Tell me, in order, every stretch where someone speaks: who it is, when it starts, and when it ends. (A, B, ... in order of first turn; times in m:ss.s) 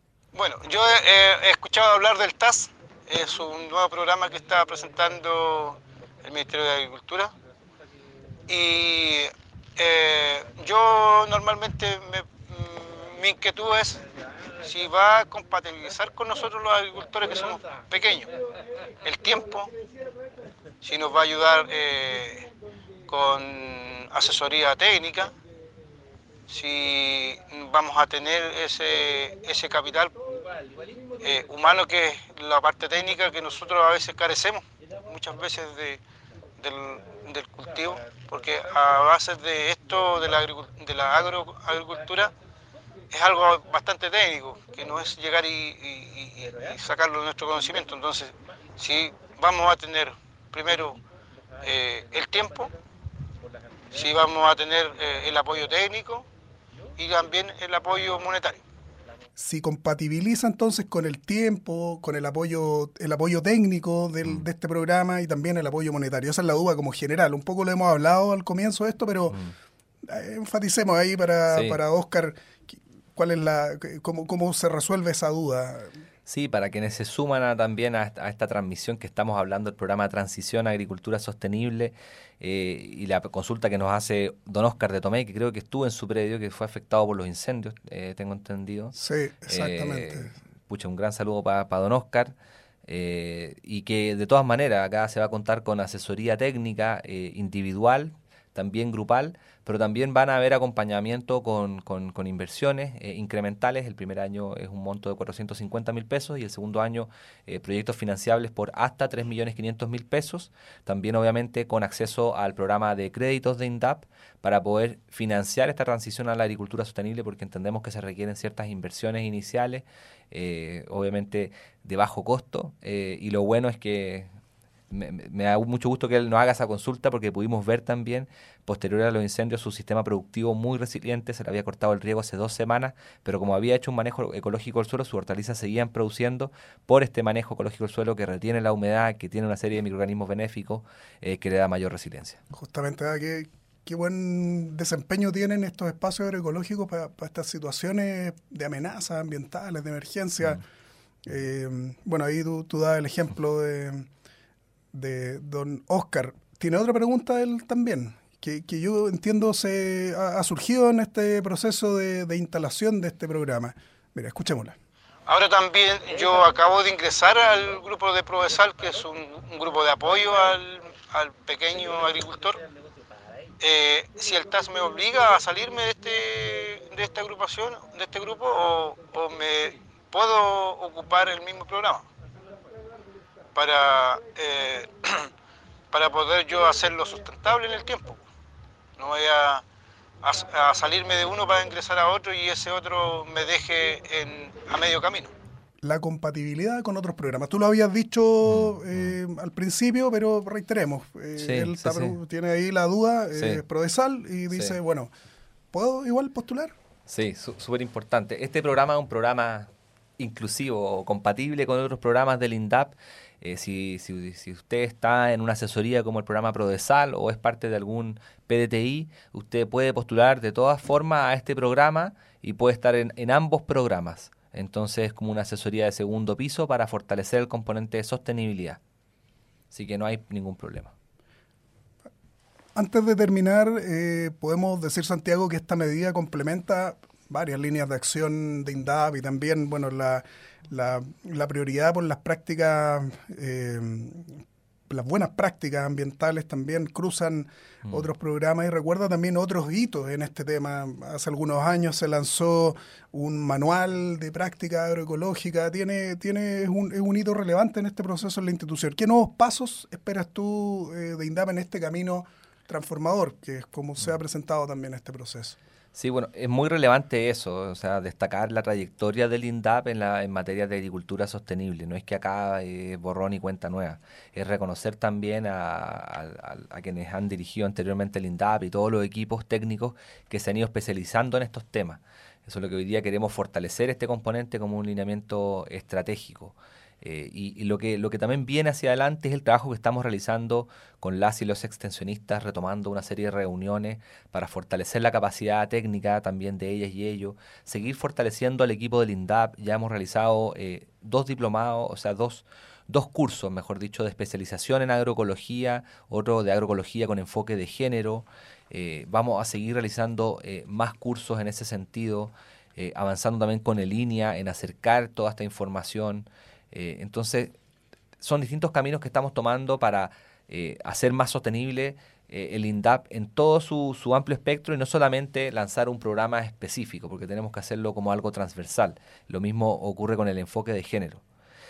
0:00.3-0:07.3 A
0:08.5-0:14.0 A
0:14.6-0:18.3 A
0:19.0-0:19.7 A
0:20.8-0:22.5 A
0:23.1-0:25.3 A
0:26.5-0:30.2 A
0:31.2-0:36.0 A
0:36.6-0:42.3 A
0:43.1-0:51.0 A
0:51.6-0:52.7 A
0:53.9-0:56.3 A
0:57.0-0:58.6 A
0:59.4-1:09.4 B
1:10.0-1:15.9 B
1:11.5-1:11.8 C
1:16.3-1:29.0 C
1:29.0-1:30.3 B
1:29.5-1:32.4 C
1:32.9-2:04.3 C
2:04.9-2:22.4 C
2:22.5-2:30.6 B
2:31.3-2:34.1 B
2:34.9-2:44.8 B
2:45.3-2:52.6 A
2:53.6-3:02.1 A
3:03.6-3:05.3 A
3:05.9-3:08.2 A
3:09.0-3:09.6 A
3:10.2-3:15.3 A
3:15.8-3:25.1 B
3:18.4-3:19.2 C
3:21.4-3:22.2 C
3:23.3-3:23.6 C
3:24.5-3:24.8 C
3:25.7-3:26.8 B
3:27.1-3:48.8 C
3:49.7-3:50.9 C
3:52.8-4:25.6 B
4:26.0-5:17.6 C
5:18.2-5:31.2 C